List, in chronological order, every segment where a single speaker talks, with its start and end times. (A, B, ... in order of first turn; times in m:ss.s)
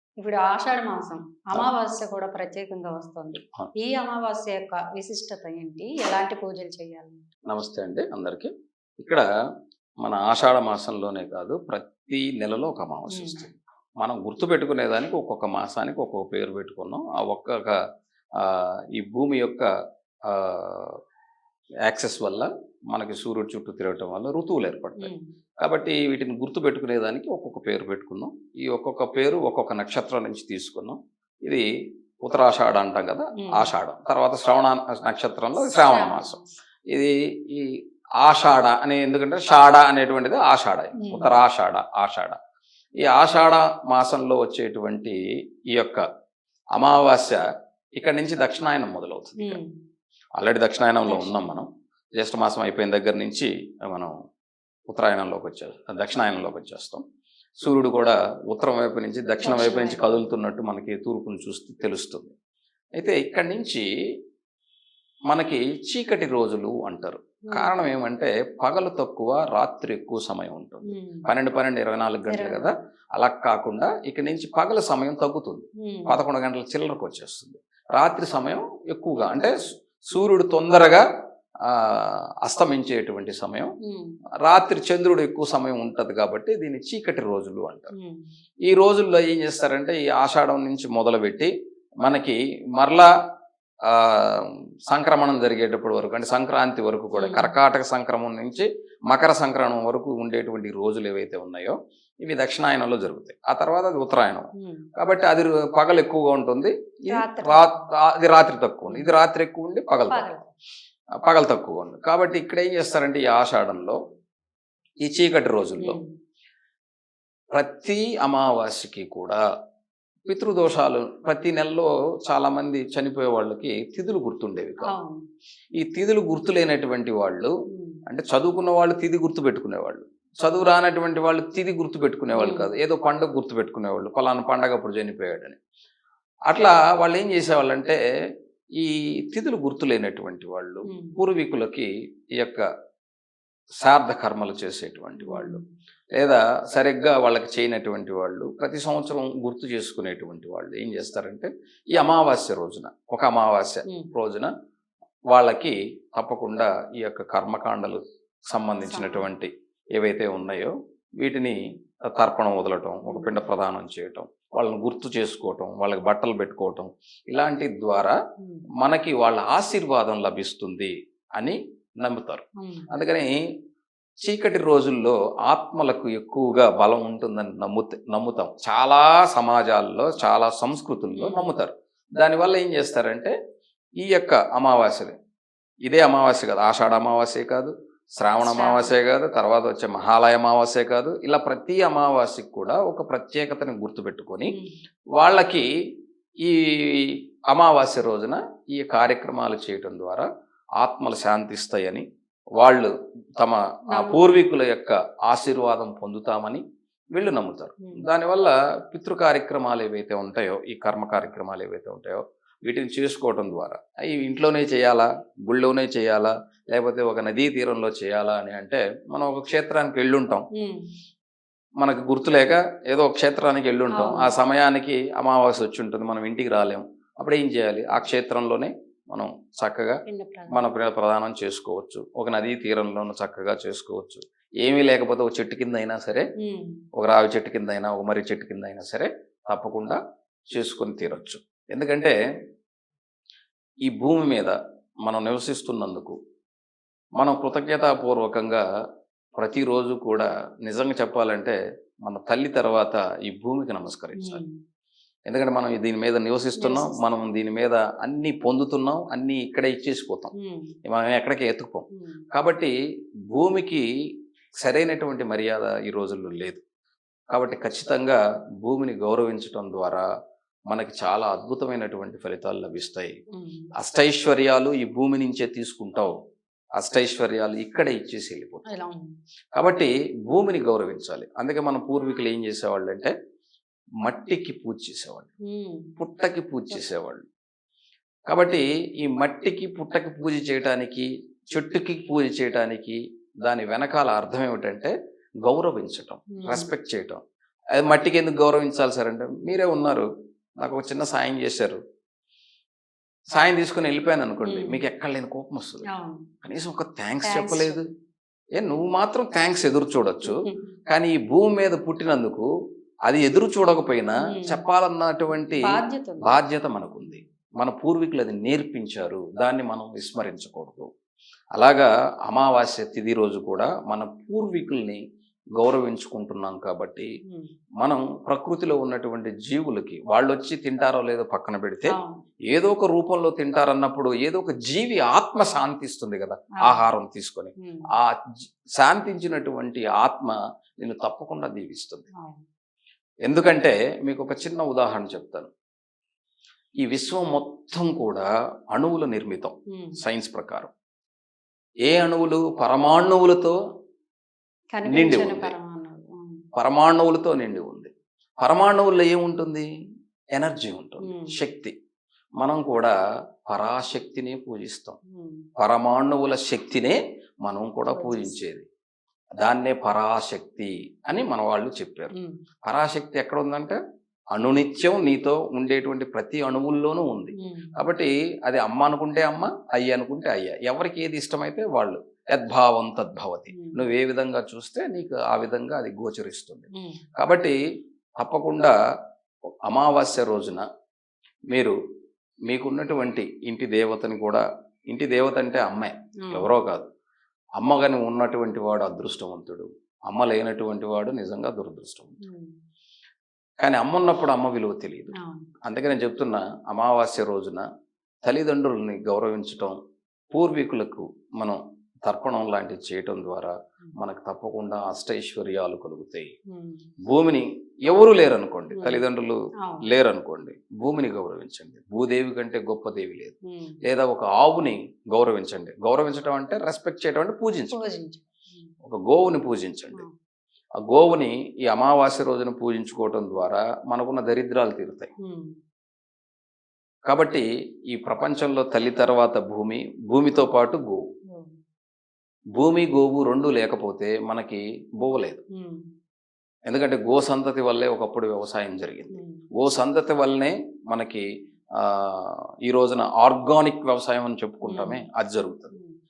0:00.2-0:07.2 A
0:07.5-0:09.2 B
0:10.0-0:17.7 B
0:13.1-0:13.4 A
0:18.4-0:19.7 B
0:20.3-0:20.9 B
0:21.8-0:31.6 B
0:25.0-0:25.2 A
0:32.2-0:36.4 B
0:33.4-0:33.7 A
0:35.6-0:36.5 A
0:36.9-0:42.4 B
0:41.0-0:41.3 A
0:43.0-0:45.2 B
0:45.7-0:46.0 B
0:46.8-0:47.4 B
0:48.0-0:49.6 B
0:49.4-0:49.7 A
0:50.4-0:51.7 B
0:51.0-0:51.6 A
0:52.2-0:54.1 B
0:54.9-0:57.0 B
0:57.6-1:02.3 B
0:59.4-1:00.1 A
1:03.0-1:03.8 B
1:05.3-1:21.0 B
1:10.9-1:11.3 A
1:12.2-1:12.7 A
1:15.8-1:16.1 A
1:21.7-1:23.7 B
1:23.8-1:24.1 A
1:24.4-1:27.9 B
1:27.9-1:28.3 A
1:28.7-1:31.5 B
1:32.0-1:33.1 B
1:33.9-1:50.2 B
1:37.1-1:37.5 A
1:44.6-1:44.9 A
1:47.1-1:47.7 A
1:48.9-1:49.1 A
1:50.1-1:50.5 A
1:51.2-1:54.0 B
1:55.0-1:56.0 B
1:55.8-1:56.1 A
1:57.5-1:59.4 B
2:00.2-2:04.9 B
2:04.8-2:05.2 A
2:05.8-2:07.5 B
2:07.7-2:08.0 A
2:08.1-2:15.6 B
2:12.4-2:12.7 A
2:16.5-2:18.0 B
2:18.8-2:22.6 B
2:20.9-2:21.2 A
2:23.8-2:25.6 B
2:25.2-2:25.6 A
2:26.2-2:34.5 B
2:35.3-2:41.6 B
2:38.8-2:39.3 A
2:42.1-2:48.2 B
2:43.1-2:43.3 A
2:48.8-2:53.3 B
2:52.6-2:52.9 A
2:54.2-3:03.3 B
3:01.2-3:01.5 A
3:04.0-3:05.1 B
3:05.9-3:14.5 B
3:08.4-3:08.9 A
3:14.5-3:14.8 A
3:15.2-3:15.6 B
3:16.4-3:20.3 B
3:20.8-3:22.0 B
3:22.6-3:26.6 B
3:23.9-3:24.4 A
3:27.1-3:40.4 B
3:40.5-3:40.9 A
3:41.8-3:50.0 B
3:43.9-3:44.3 A
3:50.1-3:50.7 A
3:50.5-3:56.3 B
3:56.4-3:56.8 A
3:57.0-4:00.0 B
4:00.5-4:02.2 B
4:03.9-4:06.2 B
4:07.2-4:08.6 B
4:09.4-4:14.4 B
4:14.2-4:14.5 A
4:15.3-4:20.3 B
4:16.6-4:17.2 A
4:20.4-4:20.7 A
4:20.8-4:22.7 B
4:21.9-4:22.2 A
4:23.3-4:23.8 B
4:24.6-4:26.6 B
4:27.3-4:30.0 B
4:30.7-4:33.2 B
4:33.3-4:33.7 A
4:33.8-4:36.1 B
4:36.8-4:38.6 B
4:38.7-4:39.1 A
4:39.6-4:43.1 B
4:44.0-4:45.3 B
4:45.4-4:45.9 A
4:46.0-4:47.2 B
4:48.3-4:54.9 B
4:55.4-4:57.2 B
4:56.3-4:56.7 A
4:57.7-5:00.1 B
5:00.6-5:01.8 B
5:03.3-5:05.8 B
5:04.5-5:04.8 A
5:05.9-5:06.3 A
5:06.4-5:07.8 B
5:07.2-5:07.8 A
5:08.6-5:10.4 B
5:10.3-5:10.6 A
5:10.9-5:12.5 B
5:13.1-5:20.9 B
5:14.2-5:14.6 A
5:15.6-5:16.4 A
5:21.6-5:25.0 B
5:25.6-5:27.1 B
5:27.8-5:32.0 B
5:31.9-5:32.2 A
5:32.5-5:38.1 B
5:37.6-5:37.9 A
5:38.8-5:42.1 B
5:42.2-5:42.4 A
5:43.2-5:45.5 B
5:46.8-5:50.7 B
5:51.9-5:53.6 B
5:54.7-5:56.4 A
5:54.9-5:55.5 B
5:56.6-5:59.7 B
6:00.3-6:01.7 B
6:01.0-6:01.3 A
6:02.4-6:02.9 B
6:03.5-6:05.0 B
6:05.1-6:05.4 A
6:05.6-6:08.6 B
6:07.9-6:08.3 A
6:09.4-6:12.1 B
6:12.6-6:13.8 B
6:14.3-6:27.6 B
6:17.4-6:17.7 A
6:23.5-6:23.8 A
6:28.2-6:28.7 B
6:29.7-6:30.6 B
6:32.5-6:36.8 B
6:36.2-6:36.5 A
6:37.6-6:42.1 B
6:42.2-6:42.5 A
6:43.6-6:45.1 B
6:45.1-6:45.5 A
6:45.6-6:47.6 B
6:48.2-6:49.7 B
6:50.3-6:56.3 B
6:56.5-6:56.8 A
6:57.1-7:07.8 B
6:58.7-6:59.0 A
7:03.5-7:03.8 A
7:07.7-7:08.7 A
7:08.8-7:10.0 B
7:10.8-7:15.1 B
7:15.2-7:15.5 A
7:17.1-7:21.0 B
7:22.6-7:25.4 B
7:25.5-7:25.8 A
7:26.7-7:31.2 B
7:29.1-7:29.4 A
7:31.8-7:35.7 B
7:34.6-7:35.0 A